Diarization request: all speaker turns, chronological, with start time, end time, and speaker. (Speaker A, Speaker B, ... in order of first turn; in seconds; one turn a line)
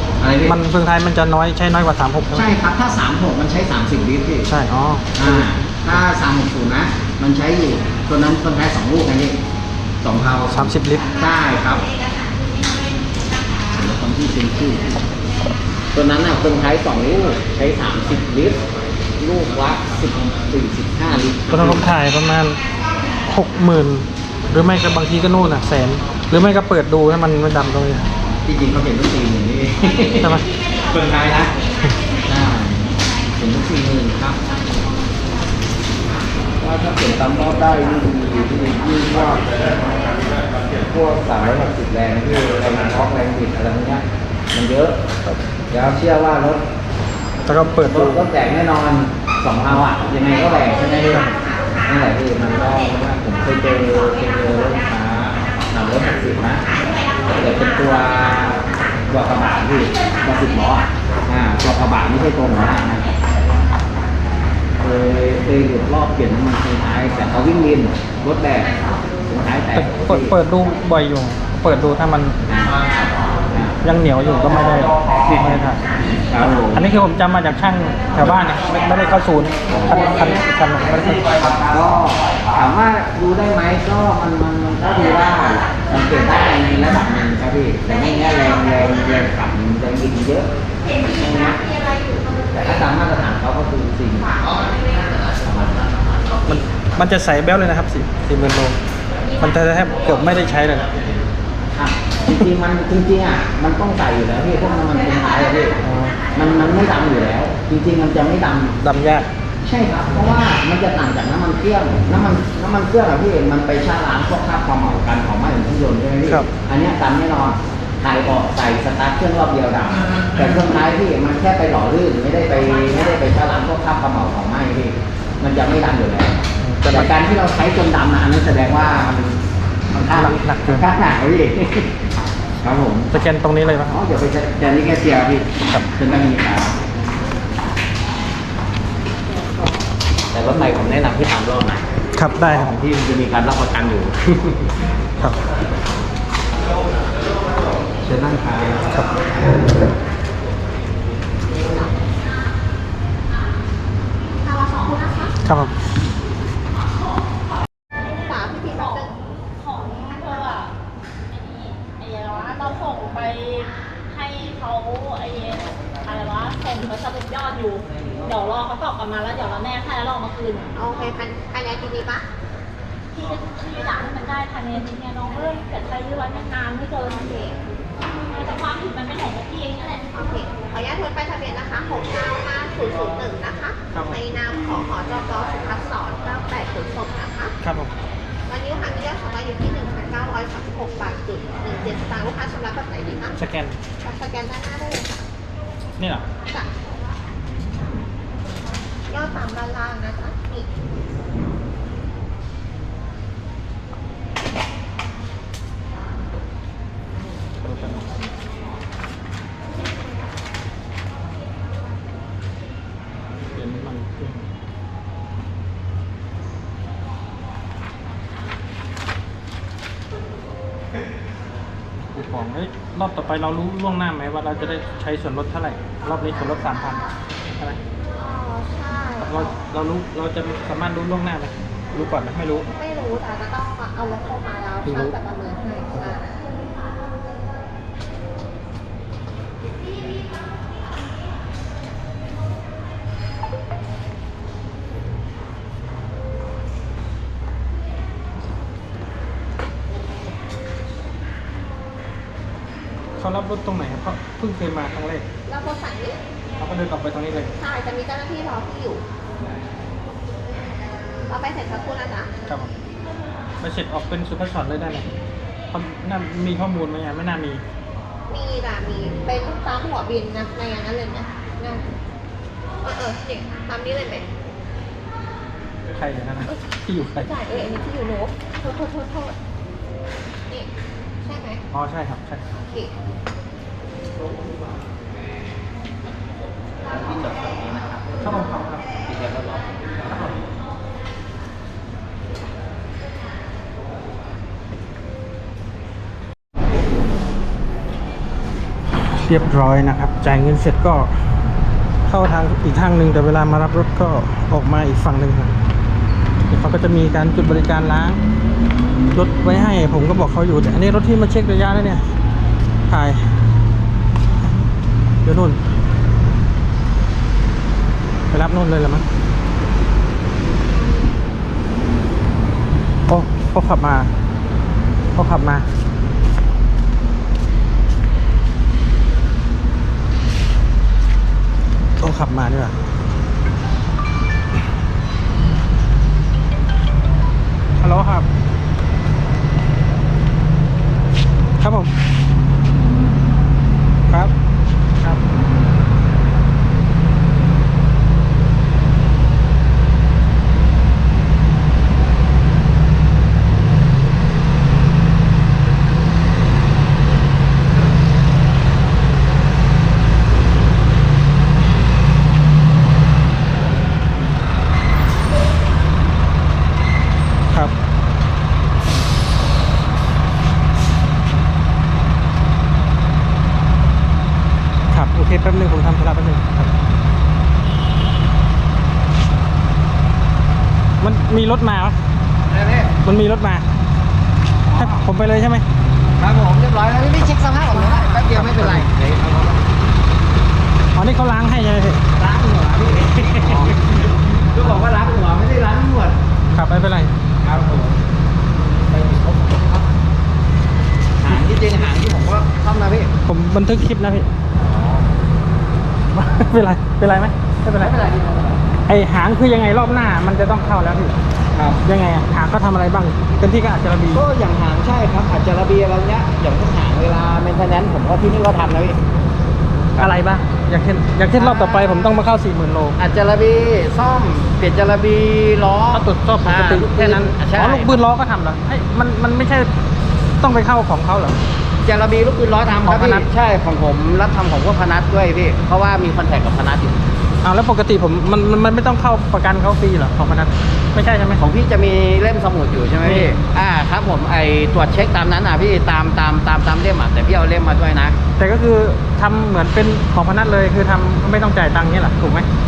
Speaker A: 0.2-0.6
Speaker B: 0.4-2.5
Speaker A: 2.3-4.5
Speaker B: 4.4-5.5
Speaker A: 5.2-9.4
Speaker A: 10.0-11.9
Speaker B: 10.5-11.1
Speaker A: 13.7-15.0
Speaker A: 15.9-18.6
Speaker A: 19.2-21.8
Speaker B: 21.5-22.6
Speaker B: 23.2-28.1
Speaker A: 28.4-31.5
Speaker B: 30.2-30.5
Speaker A: 32.2-34.4
Speaker A: 36.6-45.0
Speaker A: 45.7-46.6
Speaker B: 47.4-48.2
Speaker A: 47.6-51.3
Speaker B: 51.0-51.4
Speaker A: 51.9-56.6
Speaker A: 57.3-63.1
Speaker A: 64.8-70.3
Speaker B: 69.7-72.4
Speaker A: 72.5-73.7
Speaker B: 73.8-75.8
Speaker A: 75.2-75.5
Speaker A: 76.3-76.9
Speaker B: 76.4-81.7
Speaker A: 79.7-80.1
Speaker A: 81.6-90.5
Speaker A: 91.0-91.6
Speaker A: 92.5-94.8
Speaker A: 95.3-95.9
Speaker B: 96.5-98.8
Speaker B: 99.4-100.9
Speaker A: 101.7-105.8
Speaker B: 105.8-106.2
Speaker A: 106.3-108.8
Speaker B: 108.8-109.3
Speaker A: 109.6-129.4
Speaker B: 126.6-127.1
Speaker A: 129.9-131.9
Speaker B: 130.1-130.9
Speaker A: 132.6-133.1
Speaker B: 133.1-134.0
Speaker A: 133.9-136.7
Speaker B: 135.6-135.9
Speaker A: 140.3-141.9
Speaker B: 142.1-142.8
Speaker A: 142.5-144.6
Speaker A: 148.0-149.6
Speaker C: 154.4-155.3
Speaker B: 155.4-155.7
Speaker C: 158.2-159.1
Speaker D: 158.8-160.7
Speaker D: 161.3-170.7
Speaker C: 170.8-172.2
Speaker D: 173.1-177.2
Speaker C: 177.2-177.6
Speaker D: 178.2-180.1
Speaker C: 180.1-187.5
Speaker B: 183.9-184.2
Speaker B: 187.6-187.9
Speaker C: 188.5-193.3
Speaker B: 193.3-193.8
Speaker C: 194.0-195.2
Speaker B: 196.0-196.2
Speaker C: 199.1-200.7
Speaker B: 207.6-208.2
Speaker B: 213.5-214.5
Speaker B: 222.1-227.1
Speaker C: 228.2-229.6
Speaker B: 229.2-232.7
Speaker C: 232.7-236.3
Speaker B: 234.8-235.2
Speaker B: 253.2-255.3
Speaker C: 255.5-256.2
Speaker B: 256.6-257.5
Speaker C: 257.6-259.0
Speaker C: 261.2-262.3
Speaker B: 262.5-262.7
Speaker B: 263.6-265.1
Speaker B: 265.7-267.6
Speaker C: 268.3-271.9
Speaker C: 272.8-274.3
Speaker B: 275.9-277.3
Speaker C: 277.2-279.4
Speaker C: 281.2-281.6
Speaker B: 281.7-282.5
Speaker C: 282.6-282.9
Speaker A: 286.8-288.2
Speaker B: 288.2-288.9
Speaker A: 289.1-289.7
Speaker B: 299.2-301.1
Speaker B: 302.1-305.5
Speaker B: 306.5-308.2
Speaker B: 309.1-312.0
Speaker B: 312.9-313.2
Speaker B: 315.2-315.6
Speaker B: 318.3-319.0
Speaker B: 323.1-324.1
Speaker B: 325.1-325.6
Speaker B: 332.0-332.8
Speaker B: 337.8-338.3
Speaker B: 341.6-341.9
Speaker B: 374.9-376.7
Speaker B: 381.0-382.0
Speaker A: 382.5-382.9
Speaker B: 383.0-383.7
Speaker A: 384.7-385.1
Speaker B: 384.7-385.6
Speaker A: 386.2-389.7
Speaker B: 387.7-388.9
Speaker B: 390.9-392.0
Speaker A: 392.2-396.2
Speaker B: 393.4-393.7
Speaker B: 396.5-397.1
Speaker A: 397.4-398.0
Speaker A: 398.9-399.9
Speaker A: 401.2-403.1
Speaker B: 403.2-404.3
Speaker A: 404.6-405.1
Speaker B: 406.1-407.9
Speaker A: 407.8-408.6
Speaker B: 408.9-411.1
Speaker A: 411.5-411.8
Speaker B: 411.8-414.2
Speaker A: 414.1-419.0
Speaker B: 420.0-423.0
Speaker A: 421.3-422.2
Speaker A: 423.0-428.0
Speaker B: 425.9-429.7
Speaker B: 430.4-431.4
Speaker A: 431.8-437.0
Speaker B: 432.8-433.2
Speaker B: 437.4-441.4
Speaker A: 441.4-448.2
Speaker B: 443.0-443.3
Speaker B: 448.4-452.5